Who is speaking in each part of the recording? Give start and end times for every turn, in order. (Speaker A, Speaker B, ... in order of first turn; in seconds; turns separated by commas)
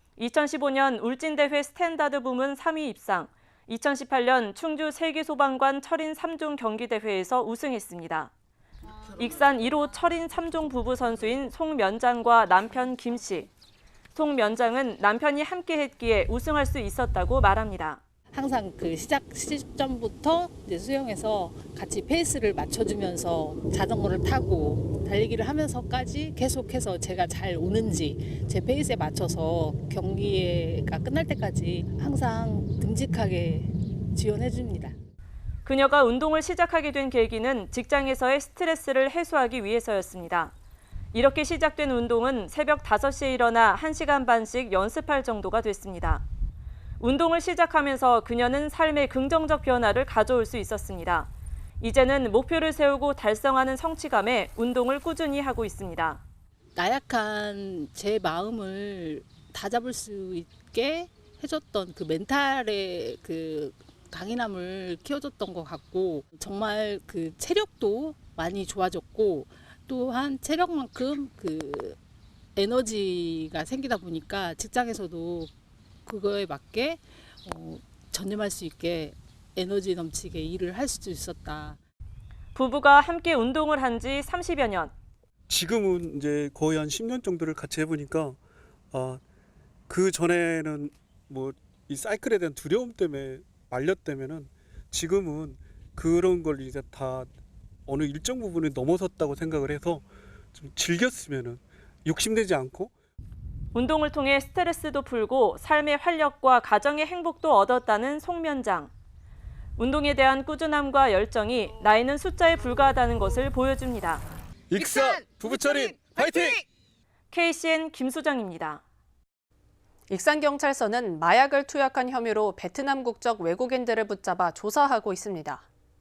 Speaker A: 0.2-8.3, Speaker A: 9.2-13.5, Speaker A: 14.2-18.0, Speaker B: 18.3-35.0, Speaker A: 35.6-40.5, Speaker A: 41.1-46.2, Speaker A: 47.0-51.3, Speaker A: 51.8-56.2, Speaker B: 56.8-72.0, Speaker B: 72.6-75.5, Speaker B: 76.1-81.8, Speaker A: 82.5-84.9, Speaker C: 85.5-88.4, Speaker C: 88.9-89.2, Speaker C: 89.9-97.3, Speaker C: 97.9-102.9, Speaker A: 103.7-108.9, Speaker A: 109.8-114.2, Speaker C: 114.7-116.6, Speaker A: 117.3-118.8, Speaker D: 120.1-125.7